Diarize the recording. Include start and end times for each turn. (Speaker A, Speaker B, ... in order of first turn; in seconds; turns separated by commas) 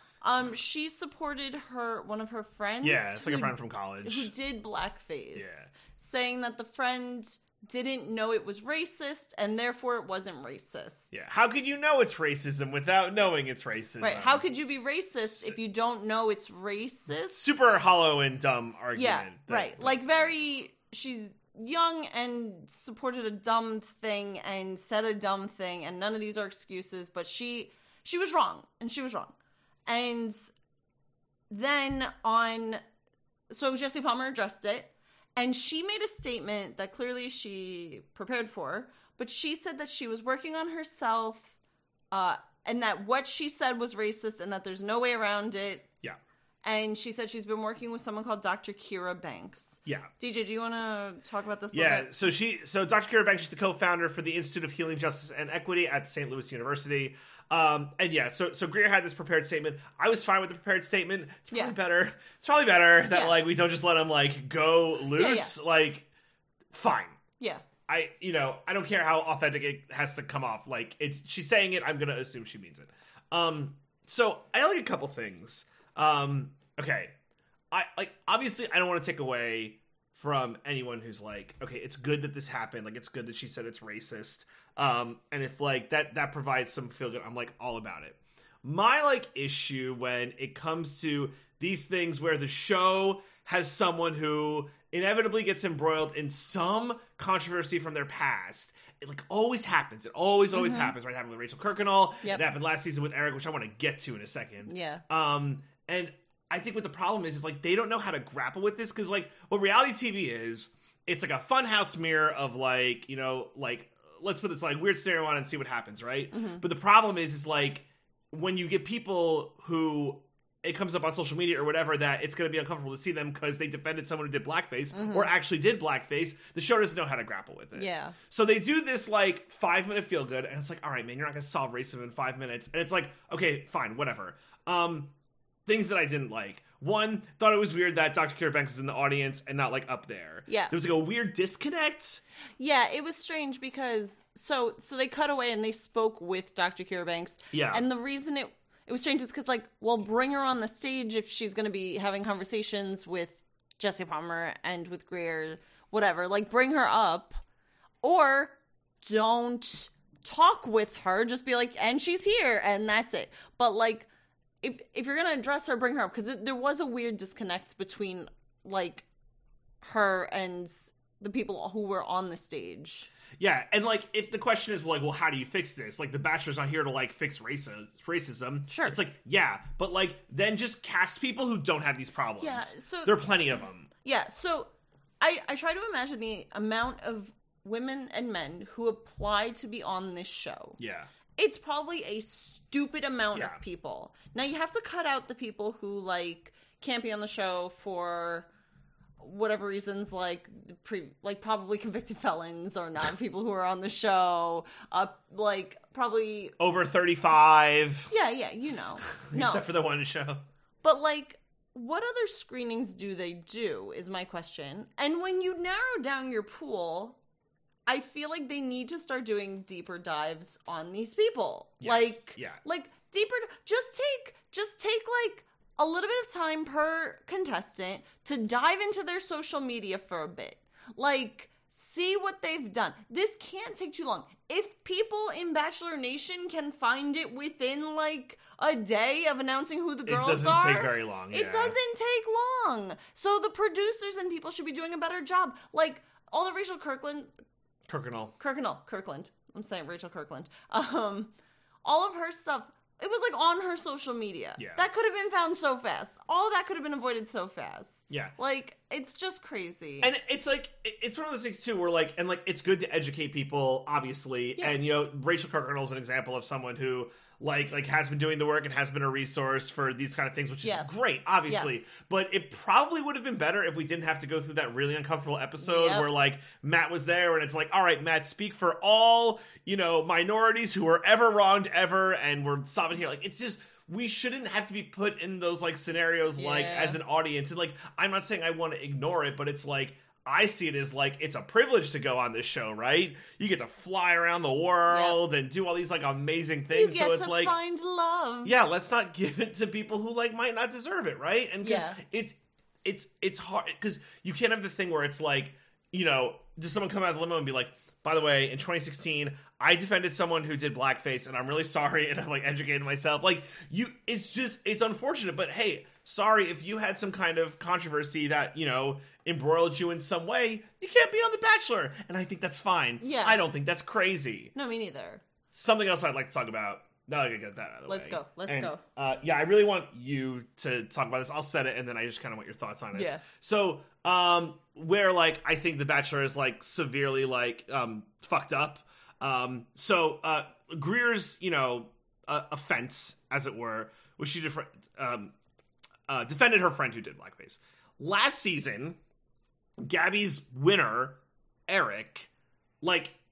Speaker A: 0.2-11.2, Speaker B: 2.8-4.3, Speaker B: 5.3-5.7, Speaker B: 11.1-14.5, Speaker A: 14.0-17.6, Speaker B: 15.2-15.6, Speaker B: 17.3-20.3, Speaker A: 18.9-29.3, Speaker A: 29.9-30.5, Speaker A: 31.5-32.8, Speaker A: 33.5-41.5, Speaker A: 42.1-45.9, Speaker A: 46.6-52.1, Speaker B: 49.9-50.1, Speaker B: 51.7-66.1, Speaker A: 63.1-63.4, Speaker A: 65.1-65.5, Speaker B: 66.7-67.2, Speaker A: 67.4-67.6, Speaker B: 67.9-77.1, Speaker B: 77.7-135.1, Speaker A: 100.5-100.9, Speaker A: 104.7-105.0, Speaker A: 116.3-116.6, Speaker A: 124.9-125.3, Speaker A: 127.7-128.2, Speaker B: 135.7-142.2, Speaker A: 140.5-140.7, Speaker A: 142.6-157.4, Speaker B: 147.5-147.8, Speaker A: 158.0-164.1, Speaker A: 164.6-169.0, Speaker A: 169.8-173.1, Speaker B: 173.4-183.9, Speaker A: 178.7-179.0, Speaker A: 182.4-183.3, Speaker A: 184.0-190.8, Speaker B: 190.8-191.1, Speaker A: 191.3-198.5, Speaker B: 193.3-193.6, Speaker A: 199.2-206.6, Speaker B: 206.6-208.1, Speaker A: 208.1-209.7, Speaker B: 209.1-210.4, Speaker A: 210.8-217.2, Speaker A: 217.9-247.3, Speaker B: 221.8-222.6, Speaker B: 240.1-241.8, Speaker B: 247.9-248.3, Speaker A: 248.4-251.3, Speaker A: 251.8-260.1, Speaker B: 254.6-254.8, Speaker B: 260.0-297.5, Speaker A: 270.6-271.9, Speaker A: 275.6-276.1, Speaker A: 286.4-287.0, Speaker A: 294.9-295.2, Speaker A: 296.7-298.5, Speaker B: 298.4-324.5, Speaker A: 301.6-302.0, Speaker A: 323.0-323.4, Speaker A: 324.5-325.2, Speaker B: 325.5-345.3, Speaker A: 327.9-328.8, Speaker A: 332.9-333.2, Speaker B: 346.1-349.0, Speaker B: 349.8-352.3, Speaker B: 352.8-353.1